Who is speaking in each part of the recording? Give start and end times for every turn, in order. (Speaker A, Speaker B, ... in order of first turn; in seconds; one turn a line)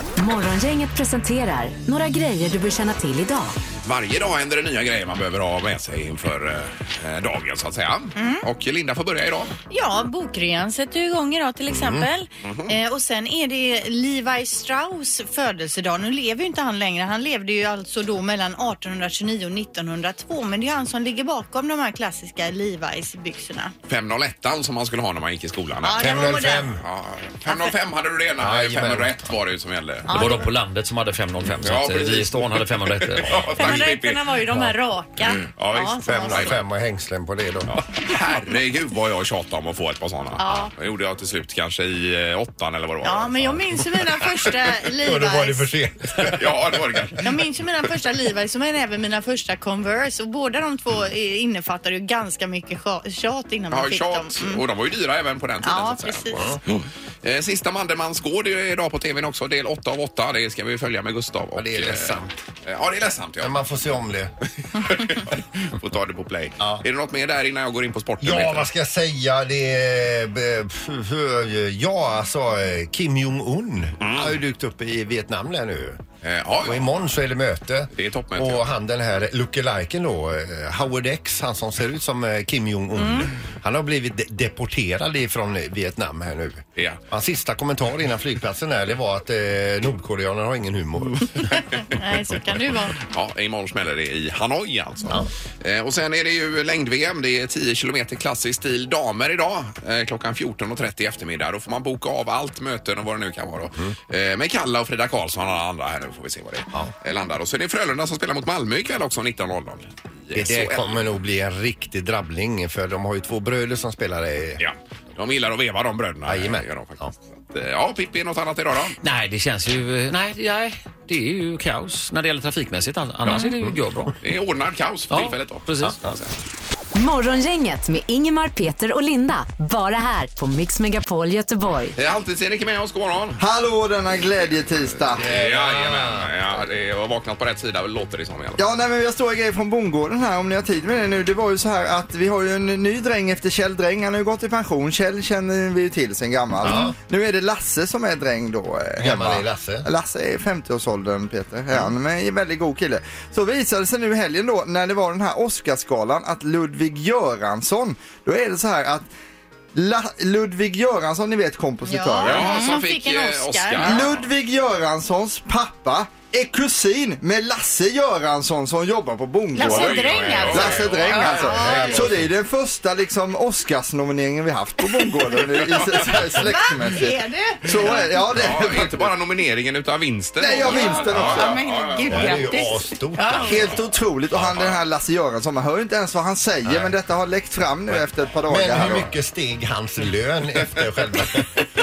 Speaker A: 0.2-3.5
Speaker B: 3.8-9.5
Speaker C: 8.2-8.5
Speaker C: 9.7-23.7
Speaker D: 11.7-12.1
Speaker B: 12.4-12.8
Speaker B: 23.9-30.1
Speaker C: 25.8-26.7
Speaker D: 26.0-26.8
Speaker C: 27.5-27.8
Speaker D: 28.4-29.2
Speaker C: 30.1-30.5
Speaker E: 30.1-33.1
Speaker B: 31.6-34.5
Speaker C: 33.5-36.6
Speaker B: 35.2-36.6
Speaker D: 36.1-37.8
Speaker B: 37.7-43.8
Speaker C: 40.4-40.7
Speaker C: 43.0-45.7
Speaker D: 44.1-47.1
Speaker B: 46.3-47.4
Speaker C: 47.2-54.6
Speaker B: 53.7-63.7
Speaker C: 55.6-56.5
Speaker D: 61.5-62.3
Speaker D: 63.4-64.3
Speaker B: 64.6-68.7
Speaker D: 66.6-66.9
Speaker D: 68.2-76.0
Speaker B: 74.0-74.4
Speaker B: 76.2-77.0
Speaker D: 76.6-91.7
Speaker B: 77.9-78.7
Speaker C: 83.0-83.3
Speaker B: 91.5-91.8
Speaker C: 91.9-93.0
Speaker B: 93.0-111.1
Speaker D: 110.3-114.6
Speaker B: 114.6-119.0
Speaker D: 116.3-117.1
Speaker E: 119.0-124.0
Speaker B: 124.2-126.3
Speaker E: 125.1-126.0
Speaker A: 127.0-131.9
Speaker B: 131.9-133.4
Speaker F: 133.4-135.4
Speaker B: 135.1-138.7
Speaker D: 135.2-136.3
Speaker F: 138.6-159.1
Speaker D: 146.6-147.0
Speaker D: 149.0-149.9
Speaker F: 159.8-162.7
Speaker C: 161.8-164.1
Speaker B: 162.2-164.2
Speaker F: 163.8-179.1
Speaker C: 169.5-172.2
Speaker B: 169.6-172.1
Speaker D: 171.5-172.2
Speaker B: 175.4-176.2
Speaker C: 176.4-178.4
Speaker B: 178.3-182.7
Speaker F: 180.4-181.6
Speaker C: 180.7-183.5
Speaker D: 182.1-183.8
Speaker F: 183.4-189.2
Speaker B: 184.3-184.8
Speaker D: 186.7-187.0
Speaker D: 187.9-191.6